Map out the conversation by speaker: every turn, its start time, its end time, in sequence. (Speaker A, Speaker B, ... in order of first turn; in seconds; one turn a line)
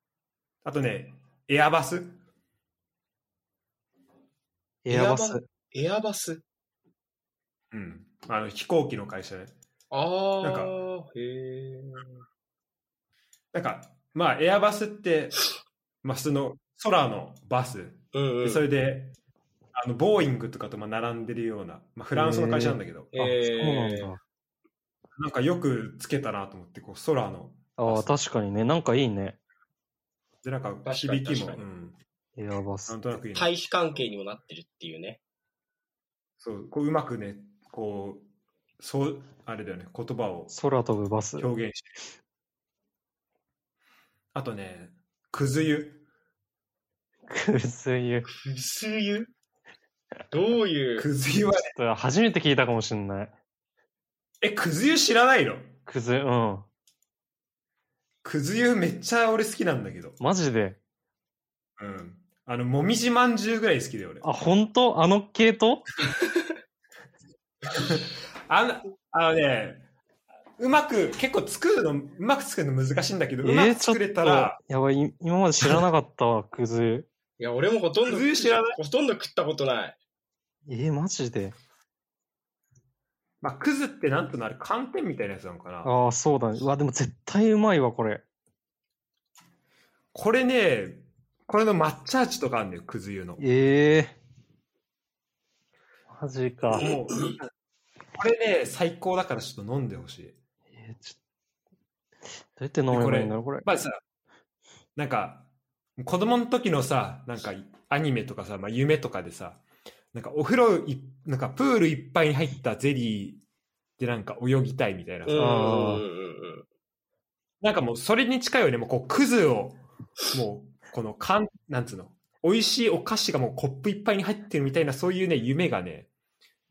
Speaker A: 0.6-2.2
Speaker B: 4.8-5.4
Speaker C: 4.9-6.4
Speaker A: 7.7-9.5
Speaker C: 9.9-12.2
Speaker A: 10.4-10.7
Speaker A: 13.5-15.4
Speaker A: 16.0-19.1
Speaker C: 18.1-18.6
Speaker A: 19.7-23.1
Speaker B: 22.1-24.2
Speaker C: 23.1-24.1
Speaker A: 25.2-28.1
Speaker B: 27.8-29.4
Speaker A: 30.4-32.0
Speaker C: 30.8-31.6
Speaker B: 32.4-33.0
Speaker A: 32.9-33.6
Speaker C: 33.3-35.2
Speaker A: 36.4-38.2
Speaker A: 38.8-40.5
Speaker B: 40.5-41.5
Speaker A: 41.4-42.0
Speaker A: 44.3-46.0
Speaker B: 47.3-48.3
Speaker C: 48.3-49.3
Speaker C: 50.3-51.1
Speaker A: 51.0-51.7
Speaker B: 51.7-53.3
Speaker A: 54.4-55.7
Speaker B: 55.9-56.6
Speaker A: 58.2-60.2
Speaker B: 60.2-60.8
Speaker A: 61.8-64.2
Speaker B: 64.2-65.9
Speaker A: 67.7-69.8
Speaker A: 70.6-74.6
Speaker B: 73.4-77.1
Speaker C: 77.4-80.0
Speaker A: 78.1-78.8
Speaker B: 80.7-81.5
Speaker A: 83.4-85.9
Speaker B: 85.8-88.2
Speaker A: 90.1-93.4
Speaker B: 93.4-94.2
Speaker B: 96.1-96.9
Speaker A: 96.8-97.5
Speaker A: 98.1-100.3
Speaker B: 100.8-101.2
Speaker B: 102.6-103.7
Speaker A: 102.9-104.0
Speaker A: 105.0-109.6
Speaker A: 110.1-113.4
Speaker A: 114.0-115.9
Speaker C: 115.2-116.7
Speaker B: 115.3-116.0
Speaker A: 117.6-126.1